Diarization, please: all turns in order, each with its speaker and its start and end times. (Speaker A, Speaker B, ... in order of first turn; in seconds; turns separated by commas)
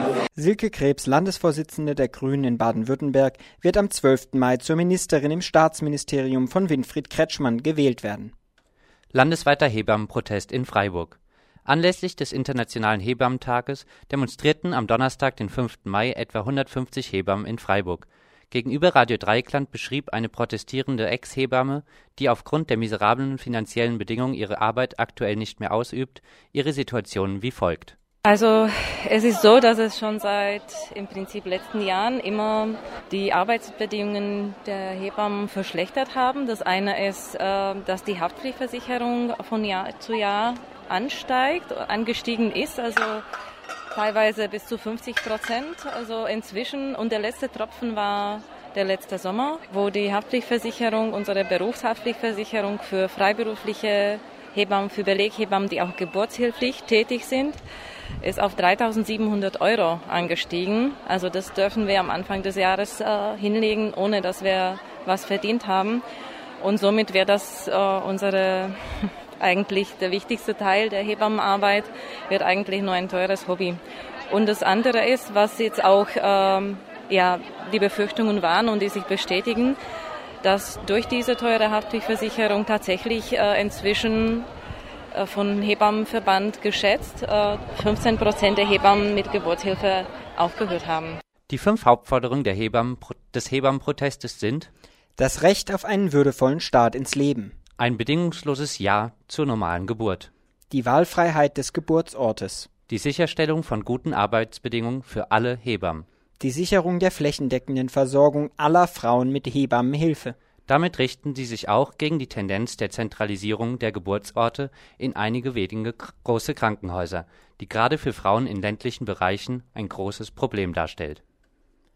Speaker A: 0.4-8.3, Speaker B: 9.1-11.2, Speaker B: 11.7-18.0, Speaker B: 18.5-27.9, Speaker C: 28.2-43.2, Speaker C: 43.9-57.6, Speaker C: 58.2-66.0, Speaker C: 66.6-68.7, Speaker C: 69.4-79.8, Speaker C: 80.4-84.5, Speaker C: 85.1-91.2, Speaker B: 91.5-94.7, Speaker A: 95.2-97.5, Speaker B: 97.8-100.3, Speaker A: 100.7-102.7, Speaker B: 102.9-106.0, Speaker A: 106.4-110.4, Speaker B: 110.7-121.2